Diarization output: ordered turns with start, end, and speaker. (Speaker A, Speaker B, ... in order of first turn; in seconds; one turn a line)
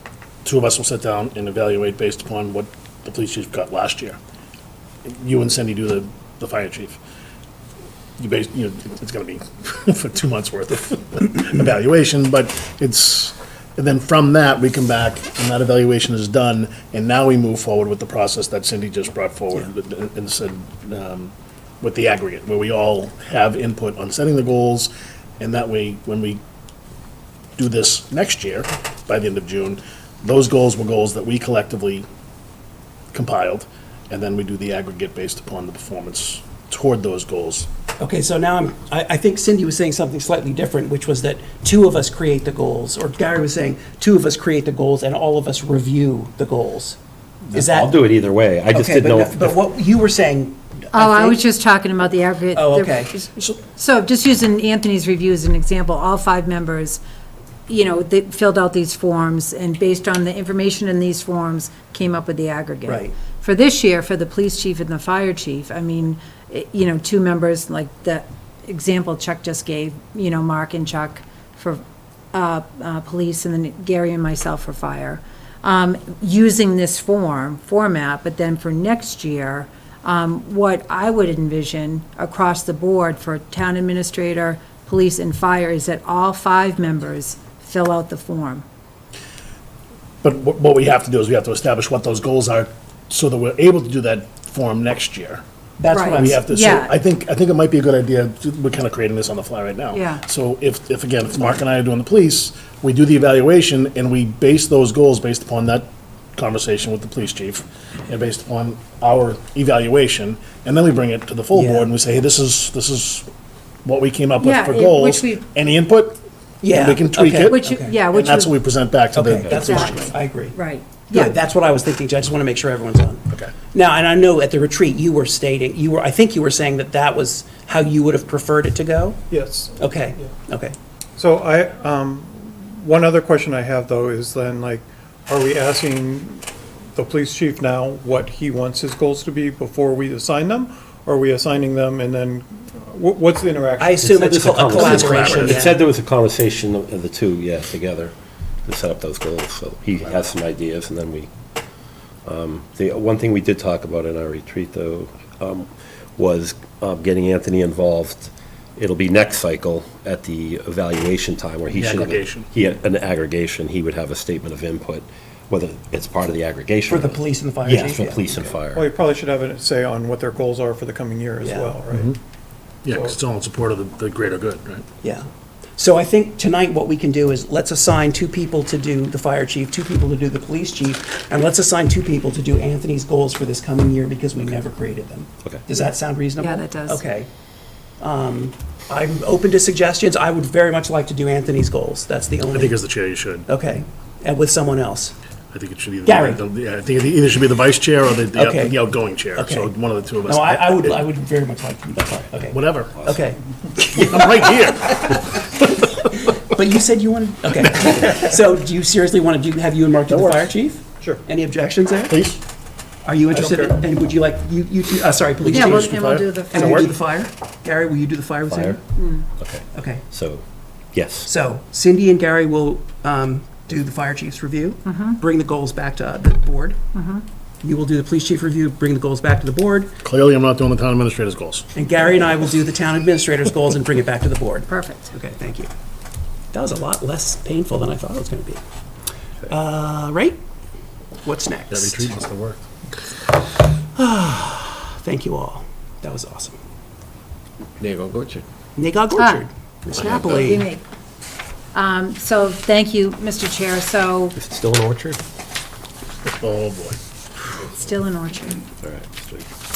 Speaker A: 0.4-4.2
Speaker A: 5.0-7.0
Speaker A: 8.2-26.4
Speaker A: 27.6-32.0
Speaker A: 33.1-37.7
Speaker B: 38.0-47.0
Speaker B: 47.5-48.0
Speaker C: 47.5-49.6
Speaker B: 48.7-51.4
Speaker D: 50.9-57.0
Speaker B: 52.5-53.5
Speaker D: 57.7-71.8
Speaker B: 62.9-63.1
Speaker D: 72.3-88.6
Speaker A: 90.2-95.4
Speaker B: 95.8-96.4
Speaker D: 95.9-96.9
Speaker A: 96.1-113.3
Speaker D: 99.9-100.2
Speaker B: 111.5-111.9
Speaker A: 113.8-120.1
Speaker D: 114.4-115.4
Speaker B: 116.6-118.0
Speaker D: 117.5-118.6
Speaker B: 119.1-120.6
Speaker C: 119.4-119.8
Speaker D: 119.5-121.3
Speaker B: 121.1-129.2
Speaker E: 129.3-130.2
Speaker B: 129.8-130.8
Speaker E: 131.2-144.5
Speaker B: 143.8-145.8
Speaker C: 144.0-148.1
Speaker A: 144.7-145.6
Speaker C: 148.6-151.3
Speaker C: 152.2-168.8
Speaker A: 161.7-162.5
Speaker B: 166.9-168.4
Speaker E: 168.7-172.1
Speaker B: 171.4-171.8
Speaker A: 172.8-174.8
Speaker B: 175.0-187.3
Speaker D: 186.4-187.0
Speaker B: 188.0-192.8
Speaker A: 192.5-193.5
Speaker B: 193.5-195.1
Speaker A: 195.5-201.0
Speaker B: 196.0-196.4
Speaker B: 198.3-198.8
Speaker B: 199.3-199.7
Speaker B: 200.2-212.1
Speaker A: 202.5-203.0
Speaker A: 203.9-205.5
Speaker A: 210.1-210.5
Speaker A: 212.1-212.4
Speaker B: 213.0-218.8
Speaker A: 213.3-213.8
Speaker A: 215.4-216.9
Speaker D: 215.5-217.0
Speaker C: 218.5-218.8
Speaker D: 218.9-219.2
Speaker C: 219.4-220.4
Speaker B: 219.7-220.0
Speaker C: 220.9-221.3
Speaker B: 221.2-226.8
Speaker D: 224.8-225.2
Speaker D: 226.9-227.2
Speaker B: 227.6-229.9
Speaker A: 230.0-231.7
Speaker B: 231.7-235.7
Speaker D: 234.7-235.1
Speaker B: 236.5-238.6
Speaker B: 239.5-240.4
Speaker B: 241.2-242.1
Speaker A: 241.7-242.6
Speaker B: 243.9-246.6
Speaker C: 247.8-248.4
Speaker B: 248.8-250.7
Speaker D: 249.2-249.4
Speaker D: 249.9-250.8
Speaker C: 249.9-250.6
Speaker D: 251.7-254.3
Speaker C: 254.3-255.2
Speaker A: 256.3-257.0
Speaker D: 257.6-258.6
Speaker C: 258.8-259.5